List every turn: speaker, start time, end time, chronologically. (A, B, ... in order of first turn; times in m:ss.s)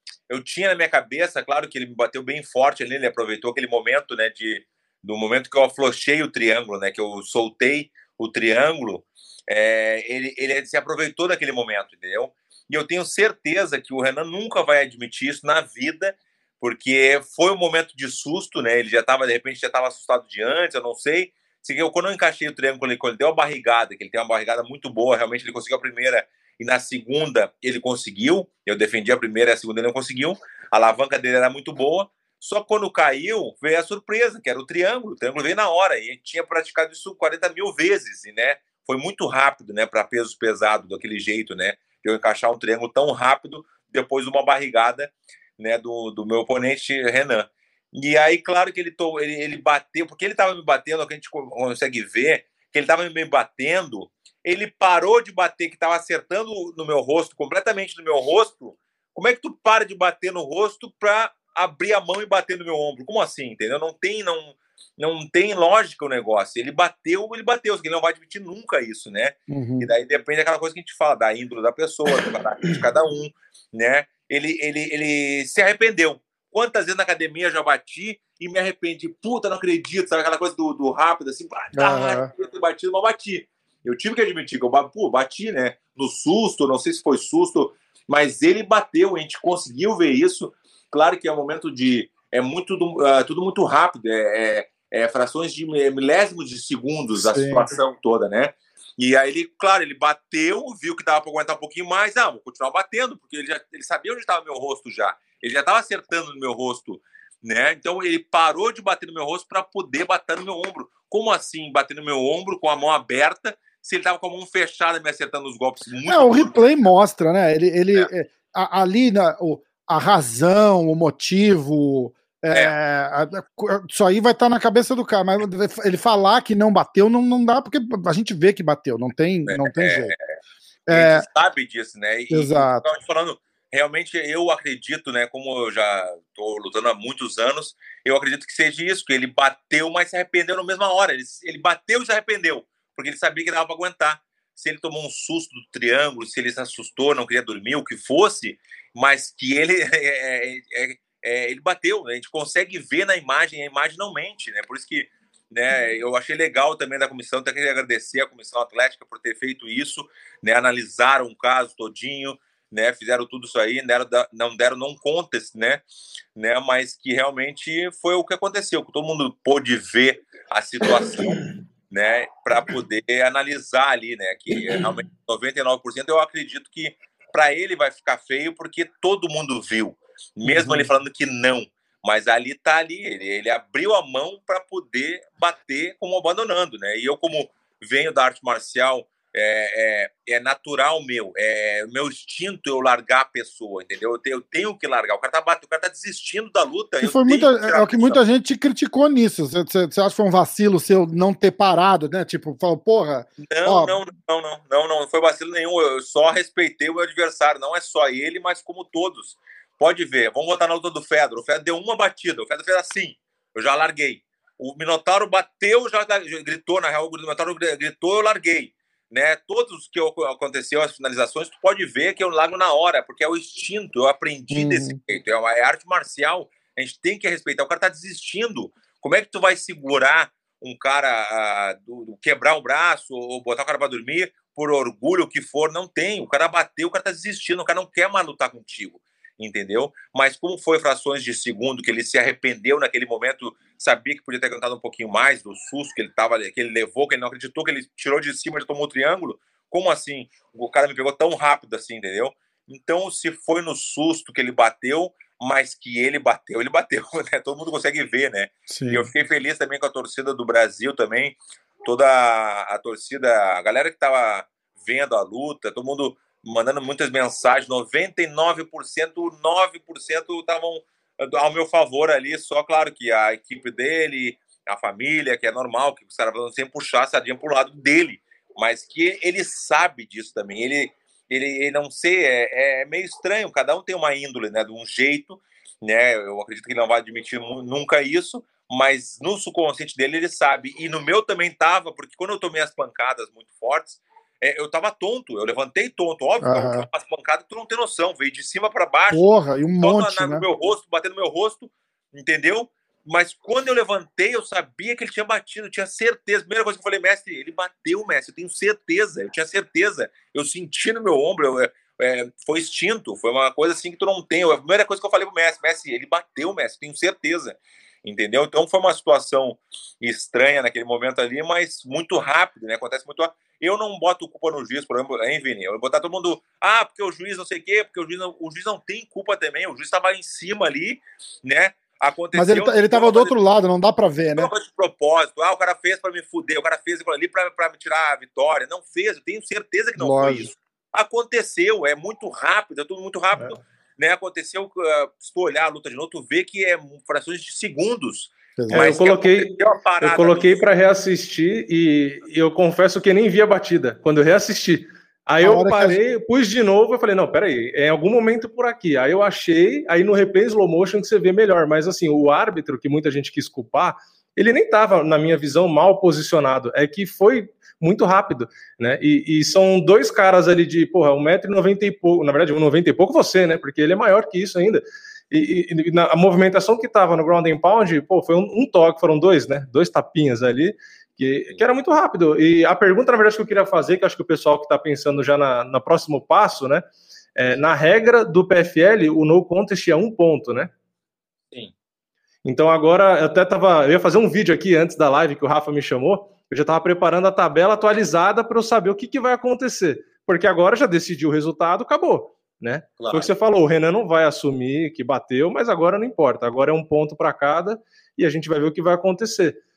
0:00.3-1:56.5 A
1:09.5-1:09.9 B
1:21.7-1:22.3 B
1:37.2-1:37.7 B
1:56.1-2:10.1 B
2:09.5-2:10.2 A
2:10.9-2:11.2 B
2:10.9-2:45.8 A
2:12.3-2:12.8 B
2:46.4-2:51.4 A
2:51.9-3:18.2 A
3:17.0-3:24.0 B
3:23.4-4:59.3 A
3:44.5-3:45.0 B
4:18.7-4:19.1 B
4:56.4-4:56.9 B
4:59.1-5:00.4 B
4:59.8-5:33.4 A
5:32.3-5:34.5 B
5:34.4-5:50.6 A
5:40.0-5:40.5 B
5:48.6-5:48.9 B
5:48.7-6:26.8 C
5:55.4-5:56.0 B
6:27.4-6:30.7 C
6:32.4-6:49.6 C
6:43.0-6:43.3 A